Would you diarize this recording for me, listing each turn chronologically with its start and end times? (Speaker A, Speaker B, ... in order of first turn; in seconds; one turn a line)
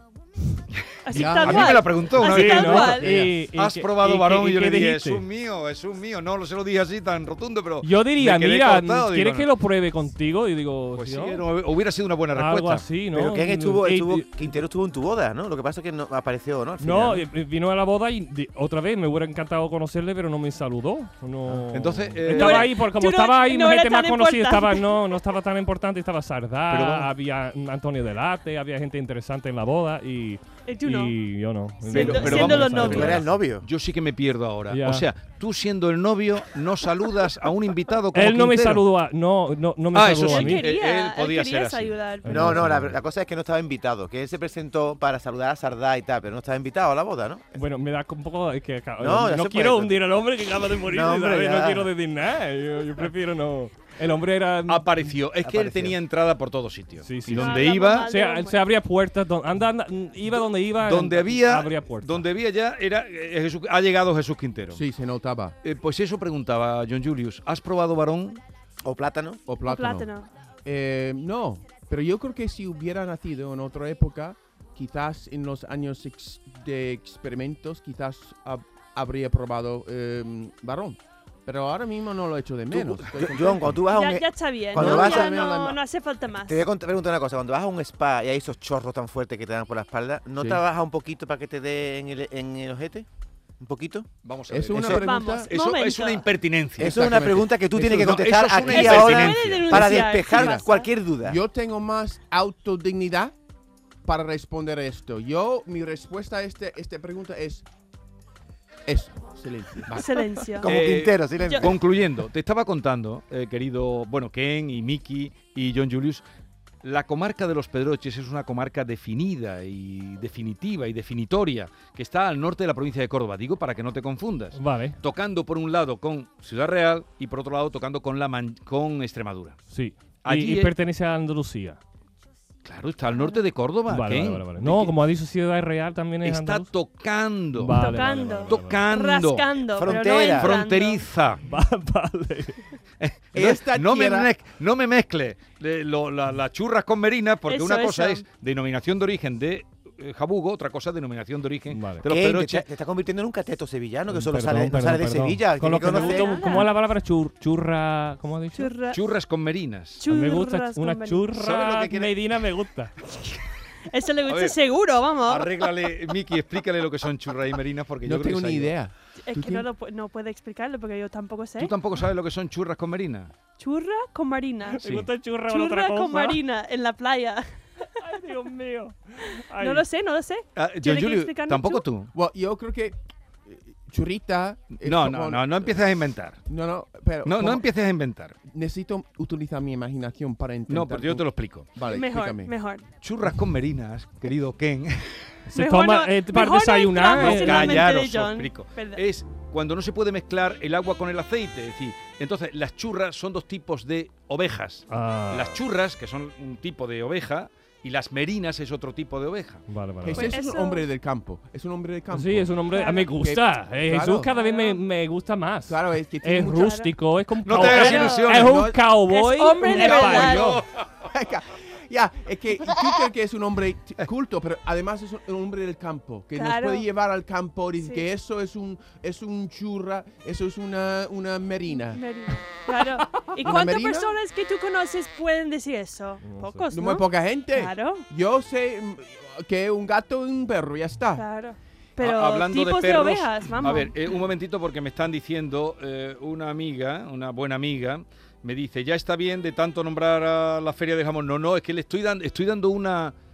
Speaker A: 1.0-3.1
Speaker B: 1.1-2.2
Speaker C: 1.2-9.5
Speaker D: 2.2-5.2
Speaker B: 2.9-3.3
Speaker D: 7.8-11.4
Speaker C: 10.9-12.8
Speaker D: 12.3-14.3
Speaker E: 13.1-17.2
Speaker D: 16.8-33.2
Speaker C: 21.7-22.8
Speaker A: 22.3-24.9
Speaker C: 26.7-27.1
Speaker A: 30.6-31.2
Speaker A: 31.8-33.2
Speaker C: 31.9-38.8
Speaker E: 32.9-33.7
Speaker D: 34.7-35.1
Speaker D: 38.1-40.7
Speaker C: 39.9-42.0
Speaker A: 40.2-42.4
Speaker D: 42.2-43.0
Speaker E: 42.2-47.6
Speaker D: 47.5-55.1
Speaker E: 49.0-50.0
Speaker E: 50.8-51.9
Speaker C: 54.7-58.1
Speaker E: 55.4-56.0
Speaker D: 57.0-62.2
Speaker A: 57.3-58.6
Speaker C: 60.3-64.8
Speaker B: 64.7-65.5
Speaker C: 65.6-68.4
Speaker E: 68.8-69.4
Speaker B: 69.5-70.1
Speaker A: 69.6-70.3
Speaker B: 70.6-83.8
Speaker E: 82.7-85.7
Speaker A: 83.8-86.6
Speaker B: 84.7-85.8
Speaker E: 86.3-93.0
Speaker B: 90.4-90.6
Speaker E: 93.6-94.1
Speaker C: 94.2-97.0
Speaker B: 94.5-95.5
Speaker A: 94.9-96.3
Speaker B: 96.8-97.5
Speaker E: 96.8-101.4
Speaker C: 97.7-99.8
Speaker A: 98.7-100.9
Speaker B: 99.7-100.7
Speaker B: 101.2-103.3
Speaker B: 104.0-107.6
Speaker B: 108.8-110.2
Speaker A: 110.0-110.7
Speaker E: 110.6-111.8
Speaker C: 110.6-116.2
Speaker A: 111.4-111.7
Speaker C: 116.8-129.6
Speaker D: 124.5-125.0
Speaker D: 129.7-131.8
Speaker C: 130.2-130.7
Speaker C: 132.6-134.9
Speaker A: 133.1-133.4
Speaker D: 133.9-136.7
Speaker C: 136.2-137.8
Speaker D: 137.5-138.8
Speaker A: 137.7-141.1
Speaker C: 138.5-141.4
Speaker E: 139.8-140.6
Speaker D: 141.4-142.6
Speaker C: 143.0-152.7
Speaker B: 143.3-144.3
Speaker A: 147.4-148.2
Speaker D: 151.7-152.1
Speaker E: 152.1-156.4
Speaker D: 154.1-158.7
Speaker A: 155.8-156.7
Speaker A: 158.5-159.0
Speaker C: 158.9-160.1
Speaker A: 160.0-161.3
Speaker D: 160.1-162.9
Speaker C: 161.4-162.1
Speaker A: 163.1-165.8
Speaker C: 164.2-164.6
Speaker C: 165.2-168.8
Speaker B: 168.0-169.7
Speaker A: 169.2-171.7
Speaker C: 171.6-173.3
Speaker A: 173.6-174.9
Speaker D: 174.7-176.4
Speaker A: 175.5-177.4
Speaker D: 177.8-179.8
Speaker A: 179.6-181.9
Speaker C: 180.6-182.1
Speaker B: 182.1-185.8
Speaker C: 184.8-186.4
Speaker B: 186.5-187.7
Speaker C: 187.2-188.3
Speaker B: 188.5-192.5
Speaker C: 190.7-191.8
Speaker A: 191.8-192.8
Speaker C: 193.0-195.3
Speaker D: 195.5-197.8
Speaker A: 195.5-199.0
Speaker C: 197.1-209.6
Speaker D: 204.9-205.6
Speaker D: 209.7-210.4
Speaker B: 210.0-212.6
Speaker A: 210.1-210.9
Speaker D: 212.1-220.6
Speaker A: 212.7-213.1
Speaker B: 213.2-214.3
Speaker A: 214.3-214.8
Speaker B: 215.7-216.7
Speaker A: 216.4-216.9
Speaker C: 217.4-218.5
Speaker A: 217.6-218.2
Speaker B: 217.6-218.8
Speaker A: 219.1-220.6
Speaker B: 219.6-232.0
Speaker C: 220.1-220.8
Speaker A: 226.3-226.9
Speaker A: 227.8-228.1
Speaker A: 231.7-238.1
Speaker B: 233.4-234.2
Speaker D: 236.2-236.7
Speaker B: 236.7-241.2
Speaker A: 241.1-244.0
Speaker C: 242.0-253.1